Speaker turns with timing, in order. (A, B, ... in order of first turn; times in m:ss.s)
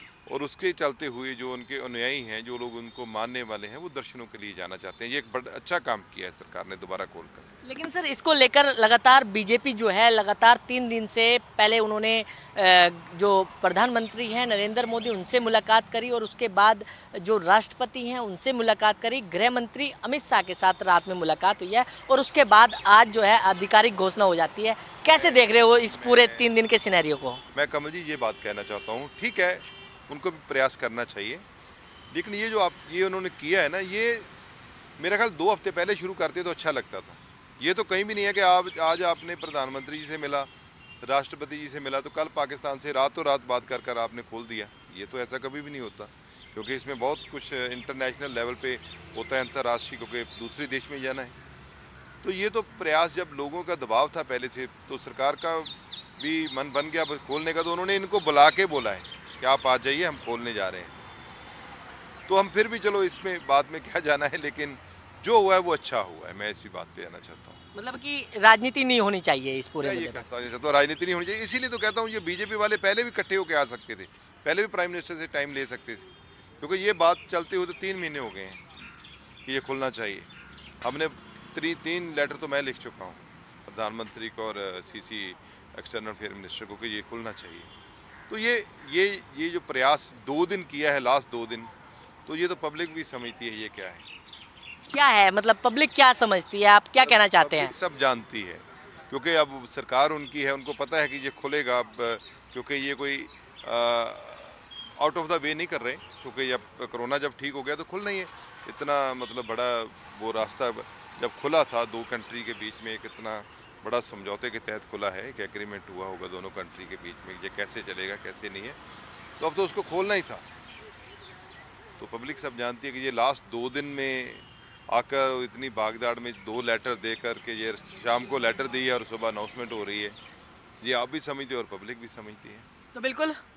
0:00.3-0:07.5 A
0:07.6-0:27.4 B
0:25.0-0:26.5 A
0:27.5-0:31.4 A
0:32.1-0:34.3 A
0:35.0-0:40.5 A
0:41.0-0:51.3 A
0:52.2-1:01.0 A
1:02.3-1:07.6 A
1:07.7-1:10.3 B
1:09.8-1:16.0 A
1:16.6-1:18.6 A
1:19.4-1:20.3 A
1:20.8-1:27.7 A
1:28.3-1:31.7 A
1:32.2-1:34.0 A
1:34.9-1:37.7 B
1:37.0-1:58.8 A
1:59.4-2:00.4 A
2:02.0-2:10.1 A
2:10.8-2:12.7 A
2:12.9-2:13.4 B